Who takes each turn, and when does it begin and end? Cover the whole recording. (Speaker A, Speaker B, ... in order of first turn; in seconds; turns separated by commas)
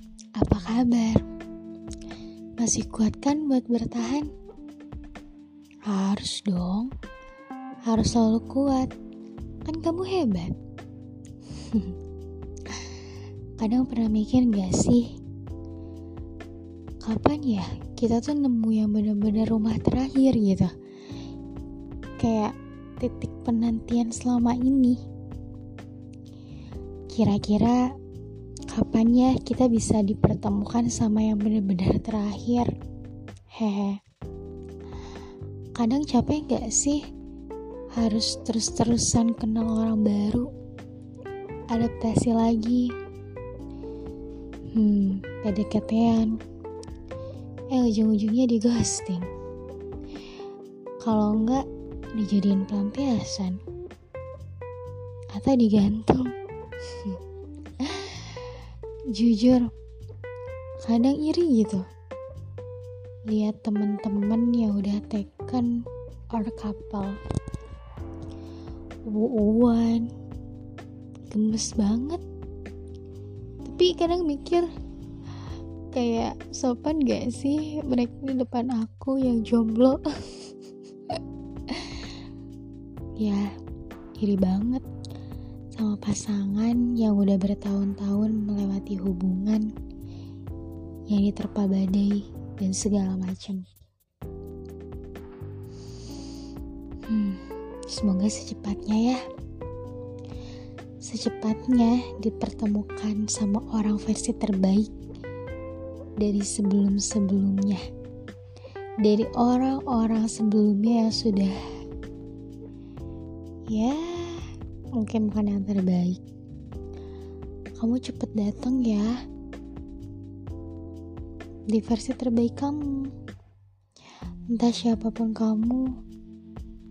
Speaker A: 0.4-1.2, Speaker A: 2.6-4.3, Speaker A: 5.8-6.9, Speaker A: 7.8-8.9, Speaker A: 9.6-10.5, Speaker A: 11.6-11.9, Speaker A: 12.7-12.9, Speaker A: 13.6-15.1, Speaker A: 17.0-20.7, Speaker A: 22.2-25.0, Speaker A: 27.1-27.8, Speaker A: 28.7-32.7, Speaker A: 33.5-34.0, Speaker A: 35.7-37.0, Speaker A: 37.9-40.5, Speaker A: 41.7-42.9, Speaker A: 44.7-46.4, Speaker A: 47.7-49.3, Speaker A: 51.0-53.6, Speaker A: 55.3-56.3, Speaker A: 57.8-58.5, Speaker A: 59.1-59.7, Speaker A: 60.8-61.9, Speaker A: 63.3-65.7, Speaker A: 66.3-67.2, Speaker A: 69.0-70.1, Speaker A: 71.3-72.2, Speaker A: 73.6-74.7, Speaker A: 75.9-80.5, Speaker A: 81.7-82.1, Speaker A: 83.2-83.5, Speaker A: 84.2-84.8, Speaker A: 85.7-89.7, Speaker A: 91.1-93.6, Speaker A: 97.1-99.2, Speaker A: 101.0-104.9, Speaker A: 106.2-107.8, Speaker A: 109.0-111.6, Speaker A: 113.7-116.2, Speaker A: 117.8-119.1, Speaker A: 121.7-123.1, Speaker A: 124.5-125.9